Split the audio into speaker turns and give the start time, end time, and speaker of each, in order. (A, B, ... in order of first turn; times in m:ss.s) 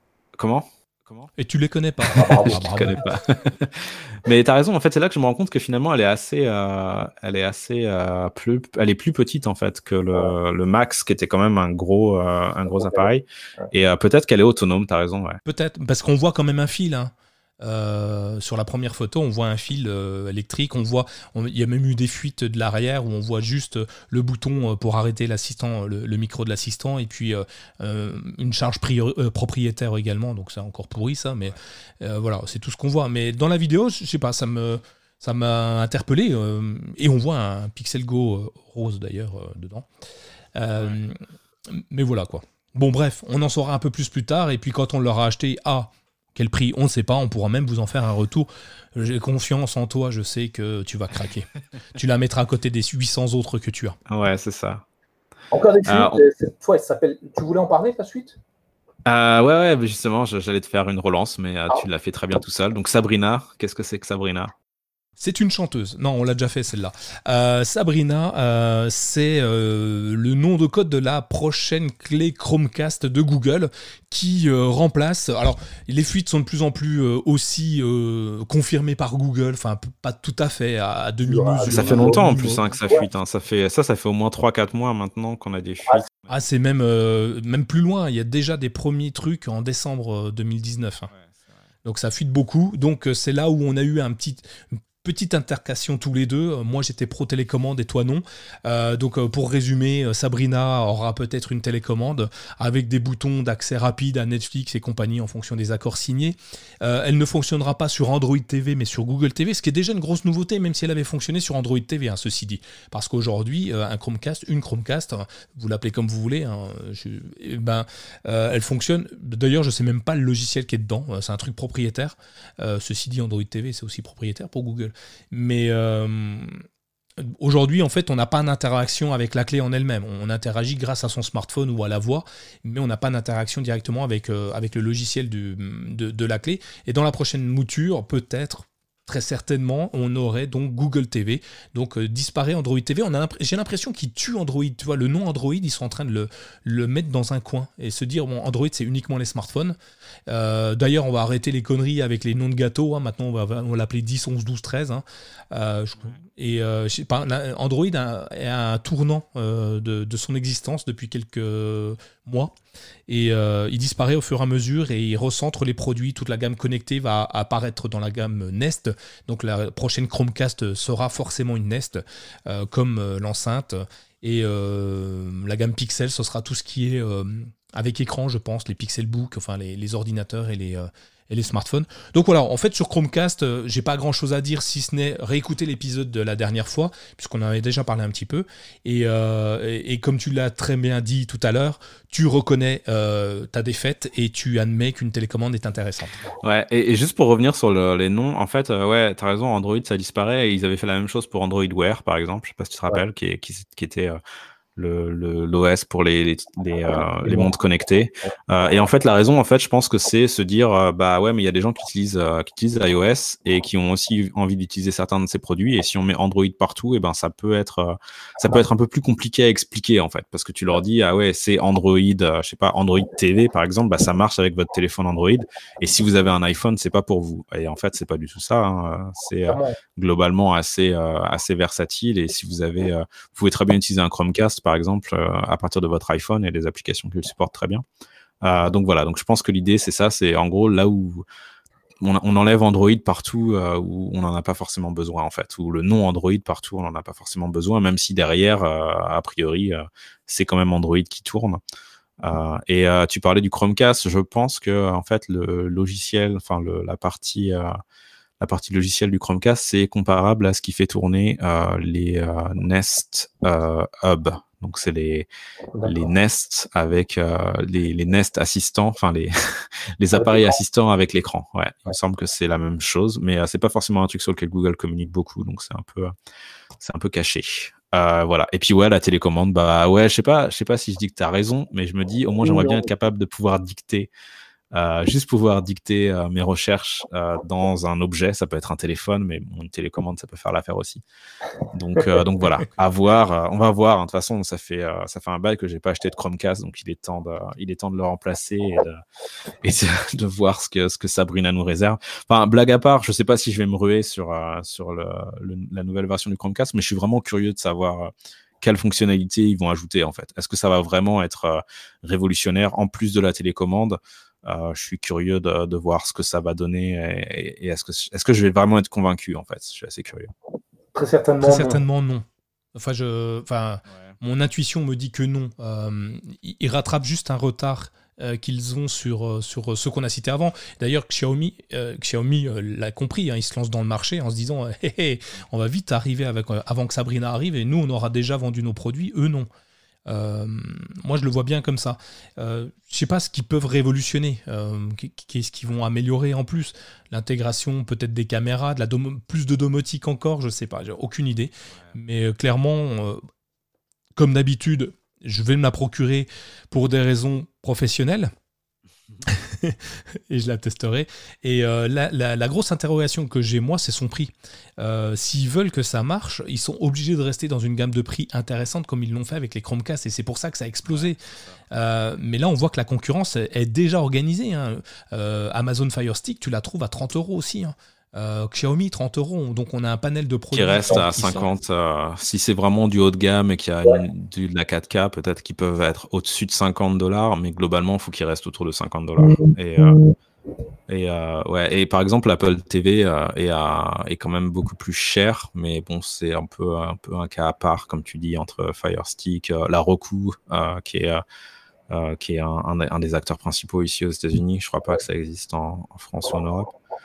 0:00.4-0:01.3 A
0:01.4-0:03.0 B
0:02.1-0:02.9 C
0:02.4-0:15.4 A
0:15.4-0:39.9 B
0:40.6-0:54.0 B
0:54.1-0:54.8 A
0:55.5-0:58.4 C
0:55.8-0:56.2 A
0:59.0-1:04.5 A
1:05.2-1:22.6 B
1:21.2-1:23.0 C
1:21.6-1:26.4 A
1:26.3-1:31.1 B
1:31.8-2:06.6 B
2:07.2-2:29.8 B
2:30.3-2:42.5 B
2:43.1-3:16.2 B
3:16.4-3:24.2 A
3:24.8-3:57.8 A
3:27.2-3:27.5 C
3:49.5-3:49.8 C
3:58.4-4:01.2 A
4:02.0-4:11.6 A
4:12.2-4:17.7 A
4:18.4-4:25.3 A
4:25.8-4:26.1 C
4:25.8-4:36.1 A
4:30.2-4:30.5 C
4:36.8-4:44.1 A
4:42.4-4:42.9 C
4:44.7-4:51.0 A
4:51.7-4:59.0 A
4:59.6-5:20.3 A
5:20.9-5:21.8 C
5:21.4-5:39.5 B
5:40.1-5:53.2 B
5:54.2-5:58.3 B
5:59.2-6:11.2 B
6:11.7-6:21.5 B
6:20.5-6:30.0 A
6:29.2-6:30.1 C
6:30.9-6:41.2 A
6:41.9-6:46.7 A